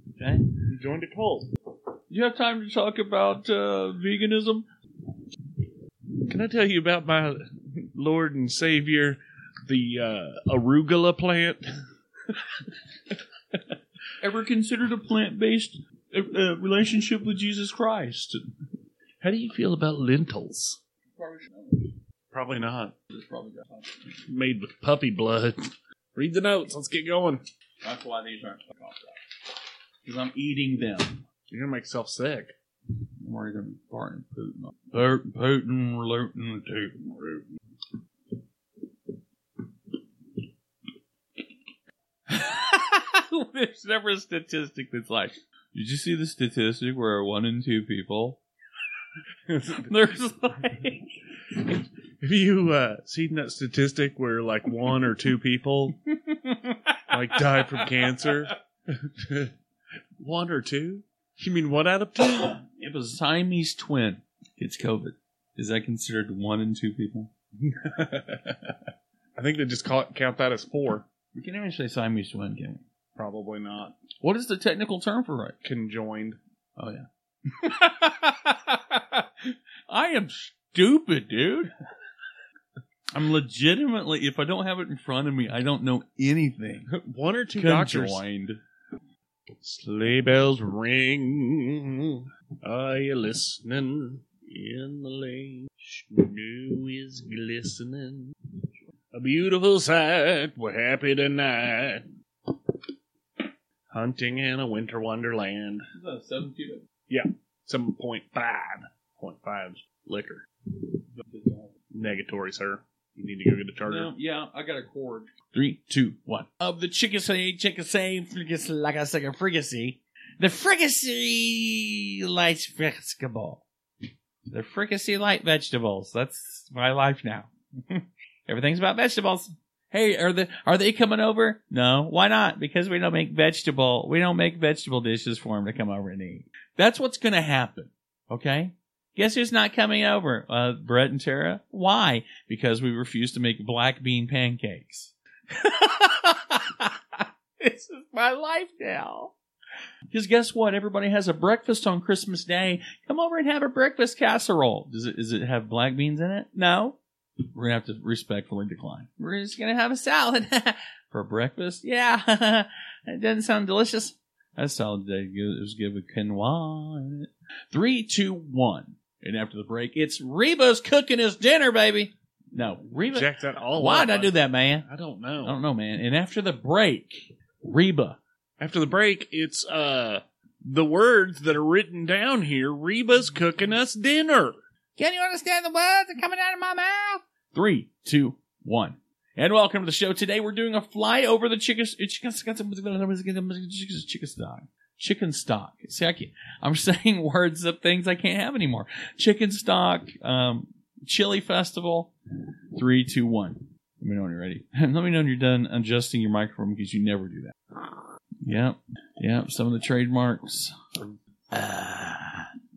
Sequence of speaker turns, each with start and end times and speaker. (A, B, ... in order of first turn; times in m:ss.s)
0:00.2-0:00.5 A
0:00.6-0:01.5 B
0:02.1-0:04.7 A
0:06.3-0:11.6 B
0:14.2-0:18.5 A
0:19.2-0:20.8 B
0:21.1-0:22.0 A
0:22.3-0:22.9 B
0:23.1-0:24.2 A
0:24.2-0:27.4 B
0:27.8-0:31.2 A
0:31.5-0:32.5 B
0:33.2-0:37.5 A
0:42.3-0:48.4 A
0:49.5-0:49.9 B
0:49.8-0:51.2 A
0:51.7-0:56.0 B
0:56.1-0:58.3 A
0:57.1-0:59.5 B
1:00.2-1:02.6 B
1:02.4-1:07.3 A
1:07.6-1:08.8 B
1:09.4-1:11.1 B
1:11.3-1:12.8 A
1:13.2-1:14.0 B
1:14.2-1:15.6 A
1:15.6-1:16.4 B
1:16.8-1:21.7 A
1:23.1-1:26.9 A
1:26.9-1:28.2 B
1:27.6-1:28.6 A
1:29.6-1:38.3 B
1:39.1-1:42.0 B
1:43.9-1:45.8 B
1:45.9-1:46.8 A
1:47.1-1:50.4 B
1:51.2-1:51.7 A
1:51.9-1:54.1 B
1:53.8-2:03.6 A
2:04.5-2:29.3 A
2:30.1-2:37.0 A
2:37.5-2:54.8 A
2:53.1-2:55.6 B
2:55.4-2:58.2 A
2:58.6-3:04.6 B
3:05.0-3:22.1 A
3:22.7-3:32.5 A